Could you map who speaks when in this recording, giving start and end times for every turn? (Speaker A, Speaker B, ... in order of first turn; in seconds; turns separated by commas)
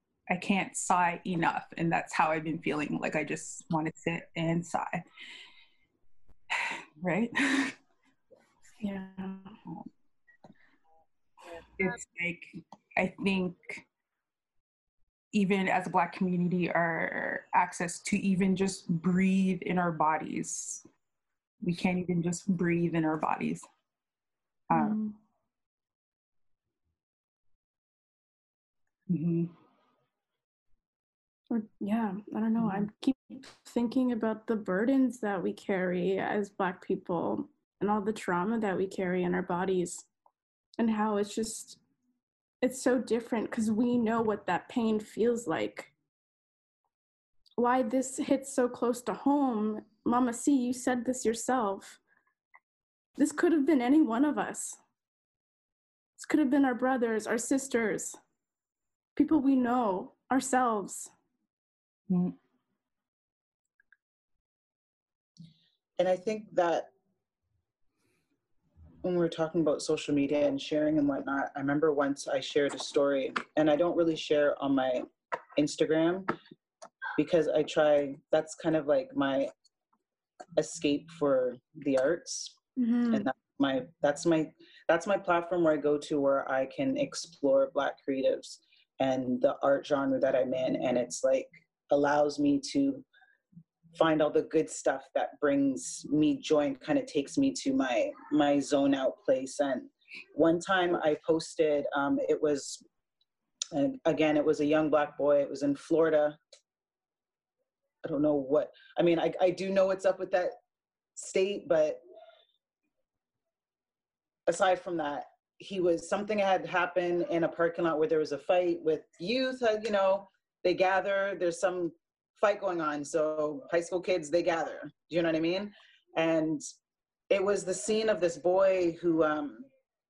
Speaker A: 0.3-5.0, Speaker A: 6.5-7.8, Speaker B: 8.8-9.6, Speaker A: 11.8-13.8, Speaker A: 15.3-20.9, Speaker A: 21.6-23.7, Speaker A: 24.7-25.0, Speaker B: 24.7-25.2, Speaker A: 29.1-29.5, Speaker B: 31.5-40.1, Speaker A: 32.6-32.9, Speaker B: 40.8-41.8, Speaker B: 42.6-45.9, Speaker B: 47.6-52.0, Speaker B: 53.2-54.8, Speaker B: 56.2-58.2, Speaker B: 59.2-61.1, Speaker A: 62.1-62.4, Speaker C: 66.0-66.9, Speaker C: 69.0-75.1, Speaker C: 75.6-76.3, Speaker C: 77.2-79.5, Speaker C: 80.6-82.5, Speaker B: 82.8-83.3, Speaker C: 83.1-93.0, Speaker C: 93.9-102.8, Speaker C: 103.7-106.4, Speaker C: 108.0-110.6, Speaker C: 111.2-112.0, Speaker C: 114.5-126.6, Speaker C: 127.3-129.7